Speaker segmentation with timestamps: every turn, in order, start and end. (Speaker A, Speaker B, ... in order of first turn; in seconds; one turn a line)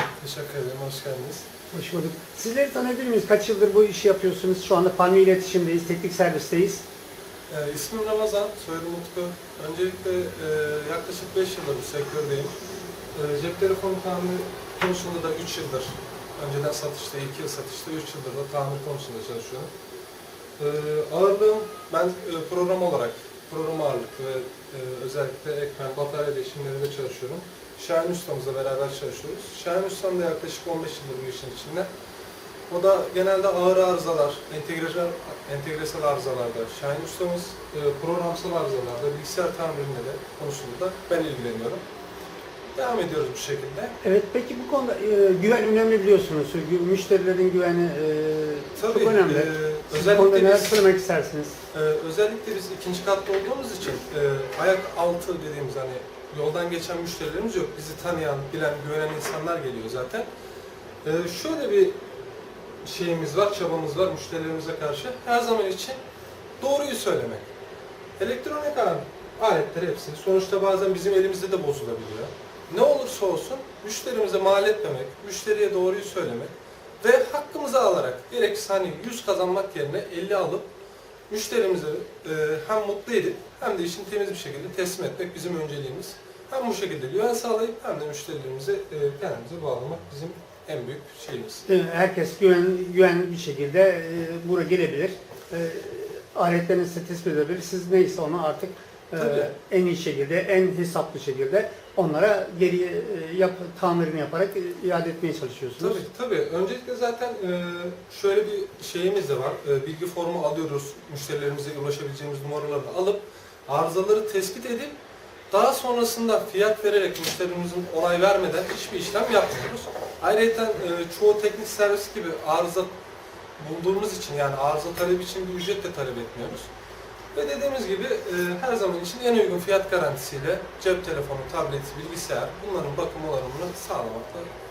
Speaker A: 0.2-1.4
Speaker B: 1.7-6.8
Speaker A: 7.5-12.6
Speaker A: 13.1-19.7
Speaker A: 20.6-31.9
Speaker A: 32.7-41.8
Speaker A: 42.7-44.0
Speaker B: 44.0-51.6
Speaker A: 48.8-50.8
Speaker A: 51.7-60.3
Speaker A: 61.0-62.0
Speaker A: 62.8-66.0
Speaker A: 66.6-67.5
Speaker A: 68.2-80.7
Speaker A: 81.3-91.6
Speaker B: 91.7-106.0
Speaker A: 99.2-99.5
Speaker A: 105.8-114.9
Speaker A: 115.5-122.9
Speaker A: 123.6-126.7
Speaker A: 127.3-134.5